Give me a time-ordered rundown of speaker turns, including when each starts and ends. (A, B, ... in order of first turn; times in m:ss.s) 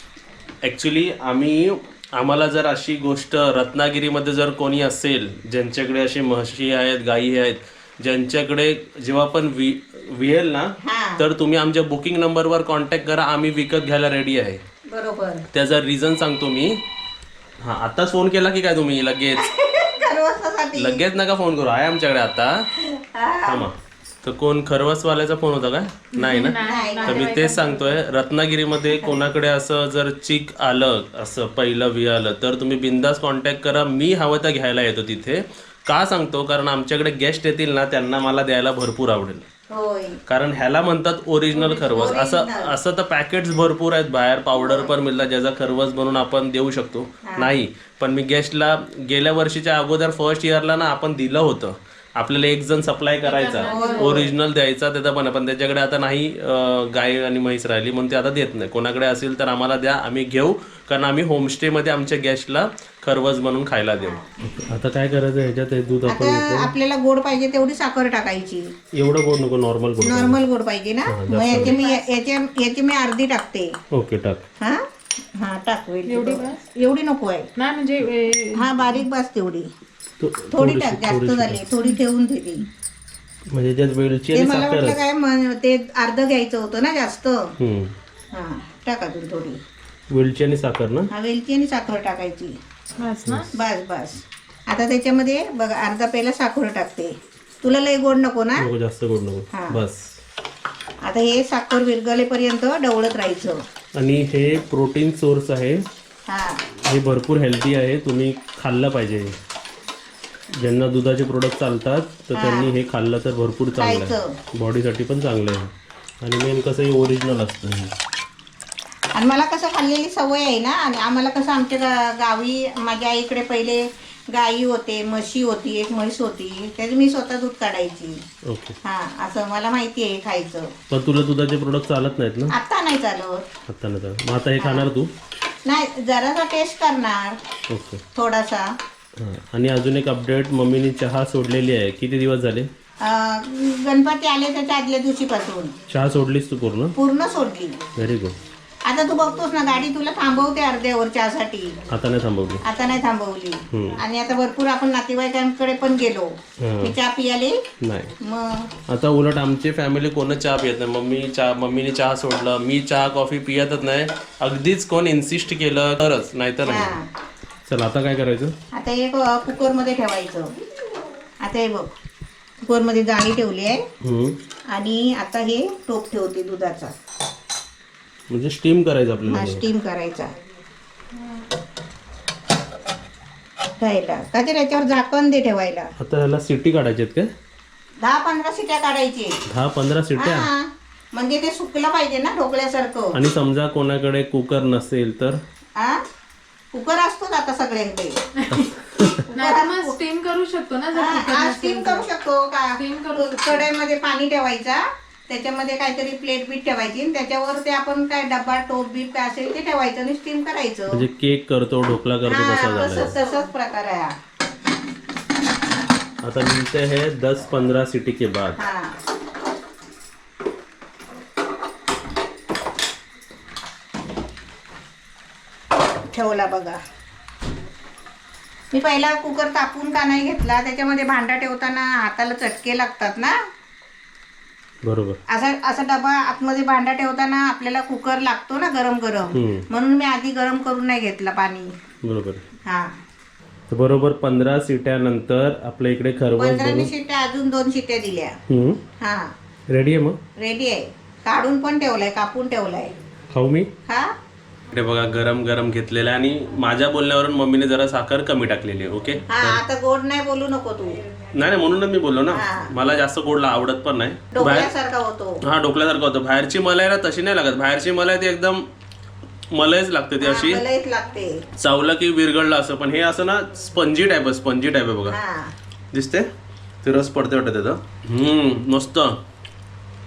0:00.6-0:14.6 A
0:10.8-0:11.2 B
0:14.9-0:15.4 B
0:15.5-0:16.8 A
0:17.6-0:19.4 A
0:19.4-0:21.0 B
0:20.7-0:22.7 A
0:22.9-0:23.6 B
0:23.4-0:39.4 A
0:26.1-0:28.0 C
0:26.6-0:27.3 B
0:28.9-0:29.2 B
0:39.7-0:40.2 B
0:40.3-1:06.7 A
0:41.5-0:42.7 B
0:44.6-0:44.9 B
0:47.2-0:47.5 B
0:53.2-0:54.2 C
0:53.6-0:54.3 B
1:04.0-1:04.2 B
1:06.1-1:08.7 B
1:08.9-1:10.4 A
1:10.0-1:13.7 B
1:11.1-1:11.8 A
1:11.6-1:12.1 C
1:13.9-1:14.4 A
1:15.4-1:17.5 B
1:16.0-1:16.6 C
1:17.6-1:18.7 C
1:18.6-1:19.7 B
1:20.2-1:21.6 A
1:20.5-1:22.6 B
1:23.5-1:25.0 A
1:24.3-1:27.5 B
1:27.6-1:28.0 A
1:28.3-1:29.6 B
1:30.1-1:31.1 A
1:31.1-1:32.6 B
1:33.0-1:33.5 C
1:33.2-1:33.5 A
1:33.5-1:38.6 B
1:38.6-1:40.0 A
1:39.5-1:39.8 B
1:41.0-1:43.6 B
1:43.9-1:45.8 A
1:46.3-1:46.6 B
1:46.8-1:49.3 A
1:50.5-1:57.9 A
1:52.4-1:52.7 B
1:53.8-1:54.3 B
1:59.1-2:08.2 B
2:08.5-2:08.7 A
2:08.8-2:10.7 B
2:10.9-2:12.5 A
2:12.5-2:13.4 B
2:13.7-2:15.1 A
2:14.6-2:14.9 B
2:15.6-2:17.4 B
2:17.7-2:18.0 A
2:18.1-2:18.7 B
2:19.2-2:22.7 A
2:23.0-2:25.7 B
2:25.9-2:26.9 A
2:27.0-2:27.8 B
2:28.0-2:28.4 A
2:28.9-2:31.8 B
2:31.9-2:32.6 A
2:32.6-2:36.3 B
2:33.7-2:34.0 A
2:36.6-2:36.9 A
2:36.8-2:37.6 B
2:37.8-2:38.1 A
2:38.2-2:38.7 B
2:38.9-2:47.0 A
2:46.6-2:47.1 B
2:47.6-2:48.5 A
2:48.7-2:50.5 B
2:51.4-2:51.9 B
2:52.6-2:53.8 B
2:54.0-2:54.4 A
2:54.7-2:56.9 B
2:58.3-2:59.6 A
2:59.3-3:00.3 B
3:03.8-3:05.9 B
3:06.0-3:07.3 A
3:08.0-3:09.4 B
3:09.5-3:10.5 A
3:10.2-3:13.2 B
3:13.1-3:15.4 A
3:16.7-3:18.2 B
3:18.4-3:18.7 C
3:18.5-3:19.2 A
3:19.2-3:20.0 B
3:19.3-3:22.0 C
3:20.9-3:31.0 B
3:22.8-3:23.6 C
3:30.9-3:33.1 A
3:32.2-3:34.1 B
3:36.2-3:38.6 A
3:38.6-3:38.9 B
3:46.1-3:46.8 B
3:48.7-3:53.3 B
3:54.8-3:55.2 A
3:55.3-4:01.7 B
3:59.3-3:59.6 A
4:02.0-4:02.4 A
4:03.7-4:06.9 A
4:06.4-4:08.4 B
4:08.5-4:08.8 A
4:09.0-4:09.3 B
4:09.7-4:10.2 A
4:10.4-4:12.9 B
4:13.3-4:13.7 A
4:13.9-4:14.1 B
4:14.7-4:19.6 A
4:19.3-4:21.0 B
4:21.3-4:24.7 A
4:22.3-4:22.7 B
4:24.3-4:25.4 B
4:25.4-4:28.6 A
4:29.5-4:30.6 A
4:30.2-4:31.4 B
4:31.6-4:35.2 A
4:35.1-4:35.5 B
4:35.9-4:36.3 A
4:36.8-4:39.2 A